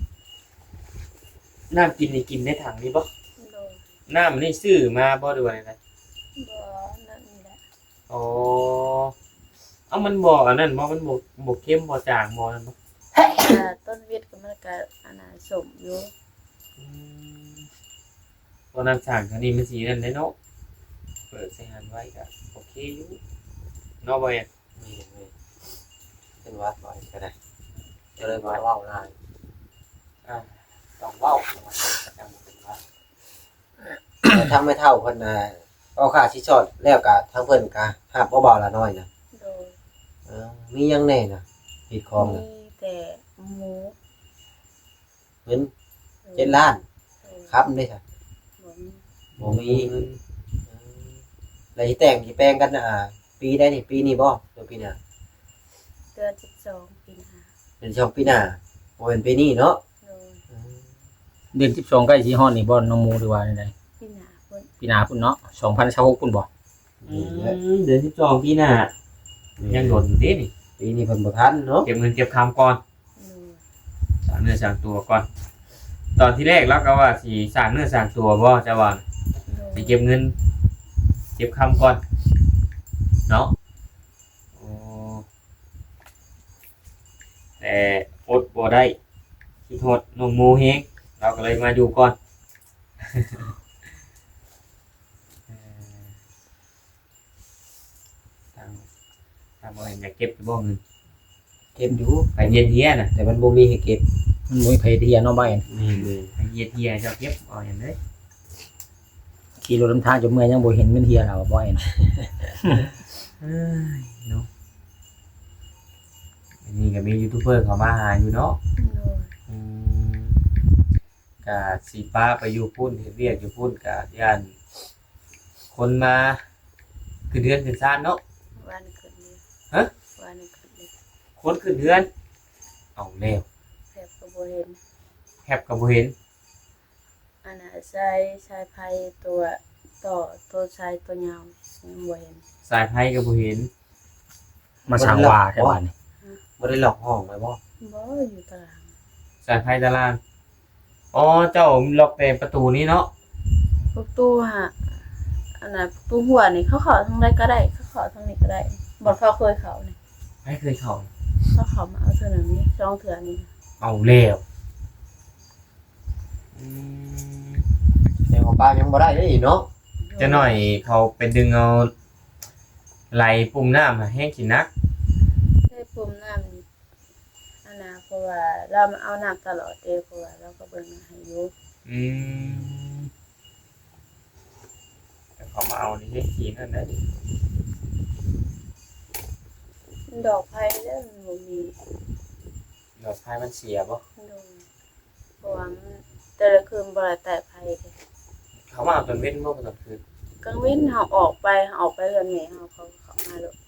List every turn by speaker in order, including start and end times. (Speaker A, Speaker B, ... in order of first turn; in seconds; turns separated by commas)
Speaker A: 1.7-3.1, Speaker B: 3.4-3.8, Speaker A: 4.1-5.8, Speaker B: 6.3-7.6, Speaker A: 8.1-9.1, Speaker A: 9.9-12.7, Speaker B: 13.2-16.1, Speaker A: 16.8-17.7, Speaker A: 18.7-20.3, Speaker A: 21.3-23.2, Speaker A: 24.0-24.5, Speaker C: 24.8-25.3, Speaker C: 26.4-27.3, Speaker C: 28.2-29.1, Speaker A: 28.2-28.6, Speaker A: 30.2-32.8, Speaker C: 34.2-39.1, Speaker B: 39.3-39.7, Speaker C: 40.3-42.4, Speaker B: 42.2-43.9, Speaker C: 45.5-45.7, Speaker B: 46.2-46.7, Speaker C: 46.4-46.8, Speaker B: 47.2-47.6, Speaker C: 47.5-48.0, Speaker B: 48.6-49.0, Speaker A: 49.4-50.2, Speaker C: 49.4-49.9, Speaker C: 50.7-50.9, Speaker C: 51.8-55.0, Speaker B: 56.1-57.5, Speaker C: 57.8-59.8, Speaker B: 60.0-60.4, Speaker C: 60.5-60.8, Speaker D: 61.5-63.7, Speaker B: 64.0-64.7, Speaker D: 64.8-66.5, Speaker C: 67.0-67.6, Speaker A: 67.1-68.9, Speaker C: 69.6-70.0, Speaker A: 69.7-70.5, Speaker C: 70.8-71.9, Speaker A: 71.8-72.8, Speaker B: 73.2-73.6, Speaker A: 74.2-75.3, Speaker A: 76.2-79.0, Speaker B: 79.5-80.0, Speaker A: 79.7-80.3, Speaker A: 81.3-82.0, Speaker A: 83.3-83.5, Speaker A: 84.5-85.2, Speaker A: 87.6-89.0, Speaker A: 89.7-92.2, Speaker A: 93.0-93.5, Speaker A: 95.5-96.1, Speaker A: 98.5-98.8, Speaker A: 99.6-100.8, Speaker C: 101.7-104.0, Speaker A: 102.3-103.1, Speaker D: 104.5-105.6, Speaker C: 105.7-106.3, Speaker A: 105.8-108.0, Speaker D: 109.6-111.9, Speaker A: 113.4-114.5, Speaker A: 116.6-118.6, Speaker B: 118.8-119.3, Speaker A: 119.5-120.4, Speaker A: 121.4-124.5, Speaker A: 125.7-126.4, Speaker A: 127.3-128.2, Speaker B: 128.6-129.4, Speaker B: 130.1-130.9, Speaker A: 131.4-132.1, Speaker A: 133.0-133.4, Speaker B: 133.9-134.8, Speaker A: 135.4-136.1, Speaker B: 137.4-142.4, Speaker A: 142.6-143.7, Speaker D: 144.9-145.9, Speaker C: 145.0-145.8, Speaker C: 146.6-147.6, Speaker B: 147.8-148.9, Speaker A: 149.4-150.2, Speaker A: 151.1-153.1, Speaker B: 153.9-155.0, Speaker B: 155.6-159.9, Speaker A: 160.4-161.1, Speaker B: 161.5-163.5, Speaker A: 163.8-164.4, Speaker A: 166.6-167.6, Speaker C: 168.3-169.7, Speaker B: 170.0-170.6, Speaker A: 170.2-171.9, Speaker A: 173.1-174.7, Speaker B: 175.7-176.6, Speaker B: 177.6-181.5, Speaker A: 181.8-183.1, Speaker A: 185.4-187.0, Speaker B: 190.1-191.8, Speaker A: 193.0-194.0, Speaker B: 194.2-194.6, Speaker B: 195.4-197.9, Speaker A: 198.7-200.0, Speaker B: 200.4-203.5